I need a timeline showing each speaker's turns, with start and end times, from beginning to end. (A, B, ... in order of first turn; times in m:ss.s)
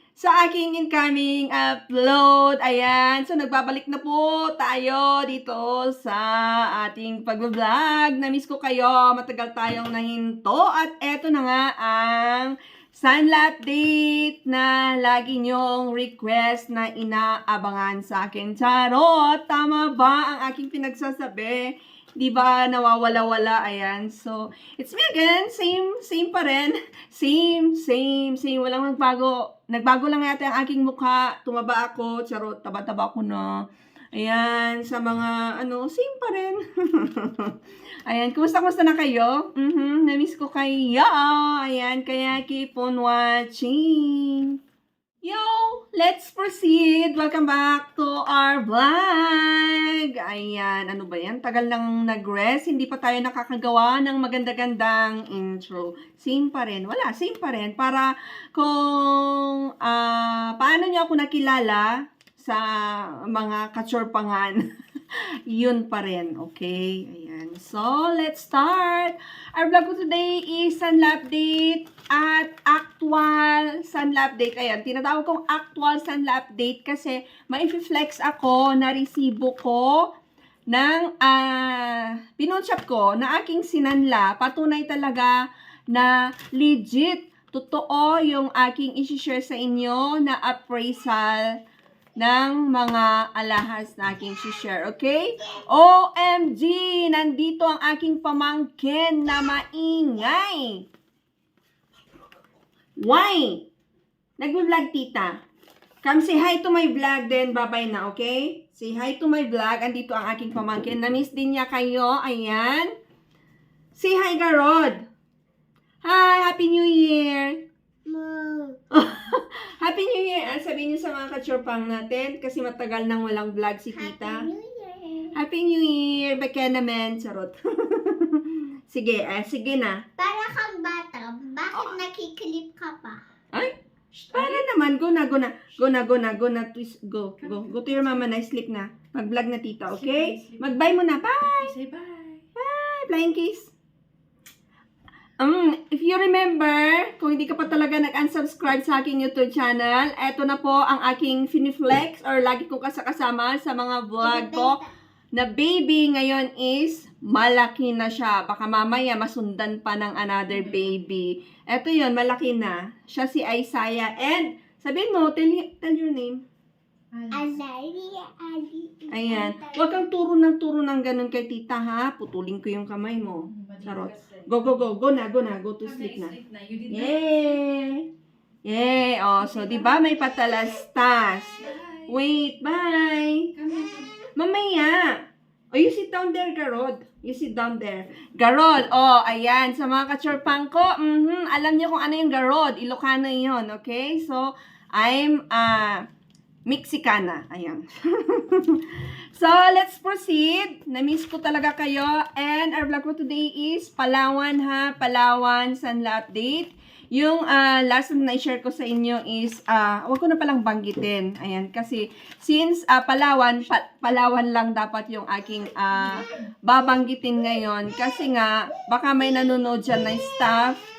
0:00.2-0:33.6 A
0:34.2-0:37.5 A
0:38.1-0:44.6 A
0:45.2-1:04.6 A
1:05.5-1:20.1 A
1:20.7-1:25.3 A
1:25.9-1:31.4 A
1:32.2-1:40.8 A
1:43.0-1:43.7 A
1:44.4-1:45.4 A
1:46.0-1:52.9 A
1:54.0-1:55.0 A
1:56.0-1:57.6 A
1:58.1-1:58.8 B
1:58.9-2:04.5 A
2:03.9-2:05.4 B
2:05.4-2:10.0 A
2:10.2-2:13.2 B
2:11.7-2:12.0 A
2:14.1-2:14.6 C
2:14.3-2:21.8 A
2:17.4-2:18.1 C
2:19.9-2:20.8 C
2:21.6-2:22.4 C
2:22.6-2:23.7 A
2:25.4-2:34.8 A
2:34.2-2:34.9 B
2:35.3-2:46.4 A
2:47.1-2:47.6 C
2:47.3-2:50.0 B
2:49.1-2:56.4 A
2:53.5-2:54.8 C
2:55.8-2:57.2 C
2:56.9-2:58.1 A
2:58.6-3:03.5 A
2:59.4-3:00.0 C
3:01.6-3:02.1 C
3:03.6-3:04.2 C
3:04.4-3:05.2 A
3:05.7-3:16.0 A
3:16.7-3:40.8 A